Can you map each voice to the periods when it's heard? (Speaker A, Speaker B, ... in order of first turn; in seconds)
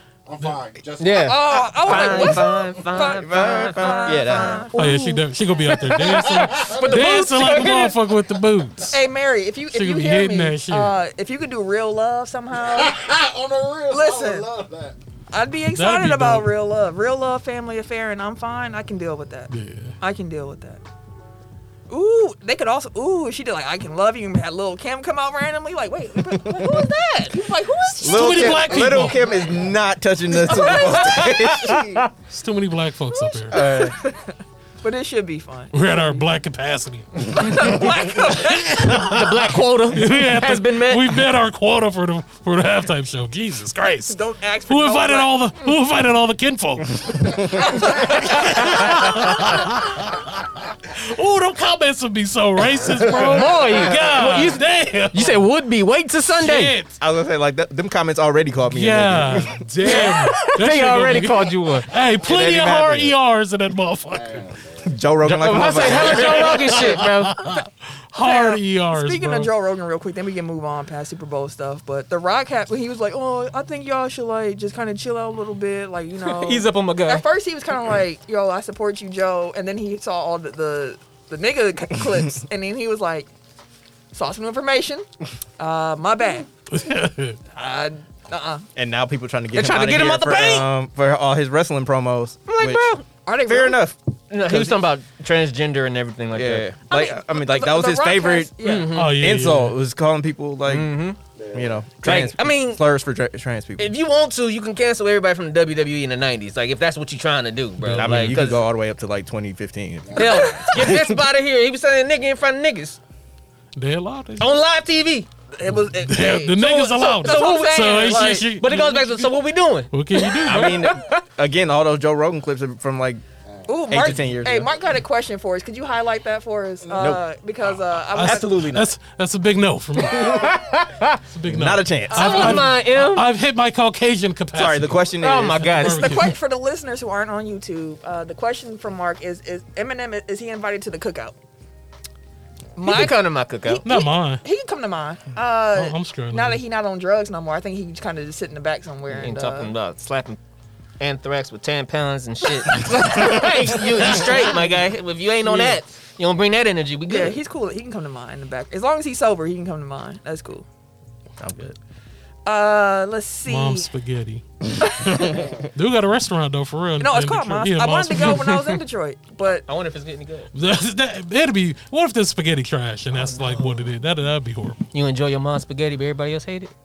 Speaker A: 0.2-2.5, 6.0-7.8, 12.5-15.0, 53.1-53.5, 64.1-65.0, 101.4-101.8, 110.1-110.5, 123.5-123.8, 126.9-127.1
Speaker B: 1.0-5.1, 5.7-8.0, 30.5-32.1, 38.9-41.2, 53.1-56.8, 59.8-63.1, 65.2-67.3, 76.2-77.2, 89.5-90.7, 92.5-93.0, 94.3-96.7, 98.6-99.2, 100.7-101.2, 102.0-102.8, 103.8-108.7, 110.1-113.0, 114.4-115.3, 117.2-121.2, 130.0-131.2, 132.1-133.3, 135.2-136.3, 142.8-143.8, 149.1-150.4, 151.0-157.4, 169.6-170.5, 173.1-173.9, 174.9-176.7
Speaker C: 1.2-5.2, 8.9-12.9, 13.9-14.5, 15.3-20.8, 21.9-29.0, 30.3-32.0, 33.1-36.1, 37.3-39.1, 44.1-45.3, 47.6-48.7, 68.2-83.3, 84.1-85.1, 85.6-86.5, 87.5-88.7, 93.2-93.8, 96.9-98.9, 115.5-118.5, 123.7-128.6, 132.1-132.7, 135.8-141.3, 142.8-149.7, 157.1-160.7, 162.4-163.9, 164.9-165.3, 167.0-169.7
Speaker D: 2.0-2.4, 3.1-4.7, 26.3-26.9, 28.0-31.9, 33.5-34.0, 57.0-59.6, 64.8-66.6, 88.8-94.8, 96.3-100.9, 101.5-103.9, 107.9-111.2, 120.4-123.2, 123.9-124.7, 127.0-127.2, 128.2-128.9, 131.4-132.5, 134.5-135.7, 155.4-155.8, 161.4-161.8
Speaker E: 4.7-9.0, 9.7-10.9, 15.7-16.5, 19.5-19.9, 28.0-29.3, 32.3-33.6, 35.7-50.3, 50.9-55.4, 56.4-57.0, 58.7-64.5, 65.7-69.5, 86.7-87.4, 98.9-99.8, 107.8-108.4, 113.7-114.5, 115.8-119.3, 119.9-120.9, 128.1-130.5, 131.3-136.3, 143.8-144.4, 145.7-146.6, 163.4-168.8, 170.5-174.8